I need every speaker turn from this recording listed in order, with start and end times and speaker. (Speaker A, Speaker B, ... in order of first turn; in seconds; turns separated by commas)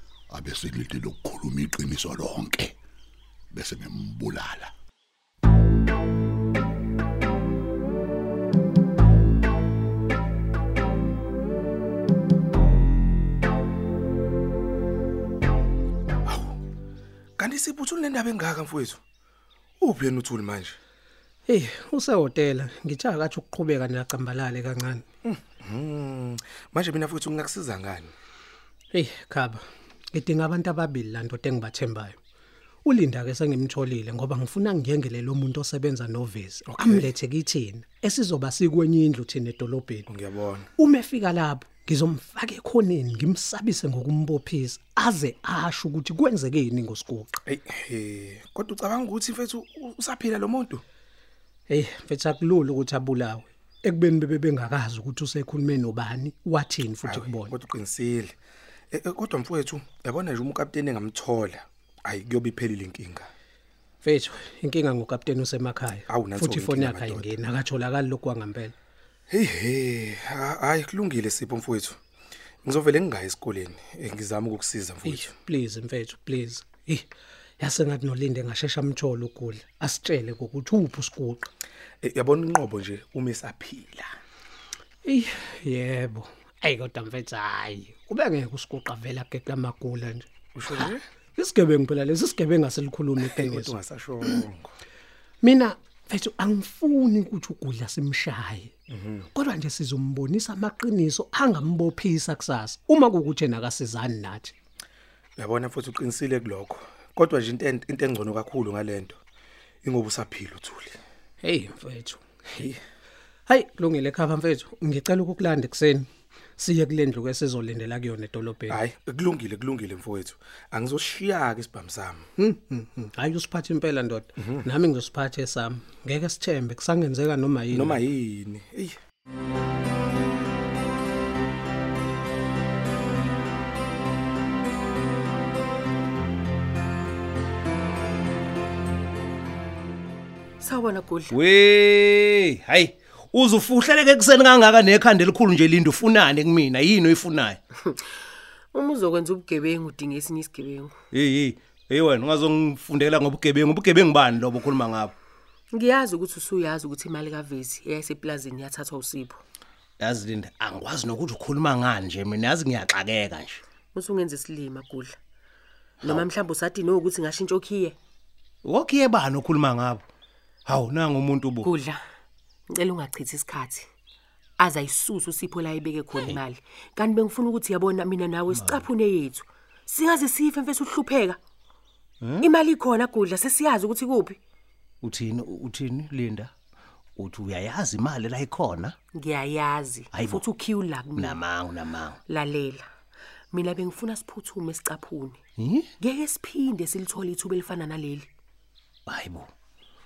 Speaker A: 0.3-2.7, Speaker A: 3.5-4.7, Speaker B: 16.3-16.5, Speaker B: 17.4-19.0, Speaker B: 19.8-20.8, Speaker C: 21.5-25.0, Speaker B: 25.3-28.1, Speaker C: 28.9-29.6, Speaker C: 30.1-32.1, Speaker C: 32.8-40.1, Speaker B: 36.8-37.1, Speaker B: 40.1-40.7, Speaker C: 40.8-47.3, Speaker B: 47.5-50.8, Speaker C: 51.7-57.5, Speaker B: 57.1-58.3, Speaker B: 58.9-63.3, Speaker C: 64.0-68.7, Speaker B: 66.1-67.3, Speaker B: 69.3-72.0, Speaker B: 72.6-75.3, Speaker C: 75.0-77.1, Speaker C: 77.6-81.5, Speaker B: 82.0-84.1, Speaker C: 85.0-93.8, Speaker B: 90.5-91.0, Speaker B: 93.2-94.7, Speaker C: 95.4-98.7, Speaker B: 98.9-99.2, Speaker C: 99.3-104.5, Speaker B: 105.4-109.2, Speaker B: 109.8-111.0, Speaker C: 111.4-112.2, Speaker C: 113.5-118.8, Speaker B: 118.7-122.2, Speaker C: 122.4-128.0, Speaker B: 127.7-129.0, Speaker D: 140.6-141.3, Speaker E: 141.3-147.6, Speaker D: 148.7-150.9, Speaker E: 151.1-155.1, Speaker D: 155.7-159.4, Speaker E: 160.0-163.6, Speaker D: 163.9-165.1, Speaker E: 166.0-166.3, Speaker D: 166.1-167.9, Speaker E: 168.6-170.0, Speaker E: 170.7-171.7, Speaker D: 171.6-172.0, Speaker D: 172.7-173.8, Speaker D: 174.6-181.4, Speaker E: 178.5-178.9, Speaker E: 182.2-182.5, Speaker D: 182.4-184.4, Speaker E: 185.0-186.5, Speaker E: 187.2-188.9, Speaker D: 189.1-191.4, Speaker E: 190.1-192.2, Speaker D: 192.3-192.9, Speaker D: 193.5-195.4, Speaker E: 195.6-195.9, Speaker D: 196.0-198.2, Speaker E: 199.1-199.5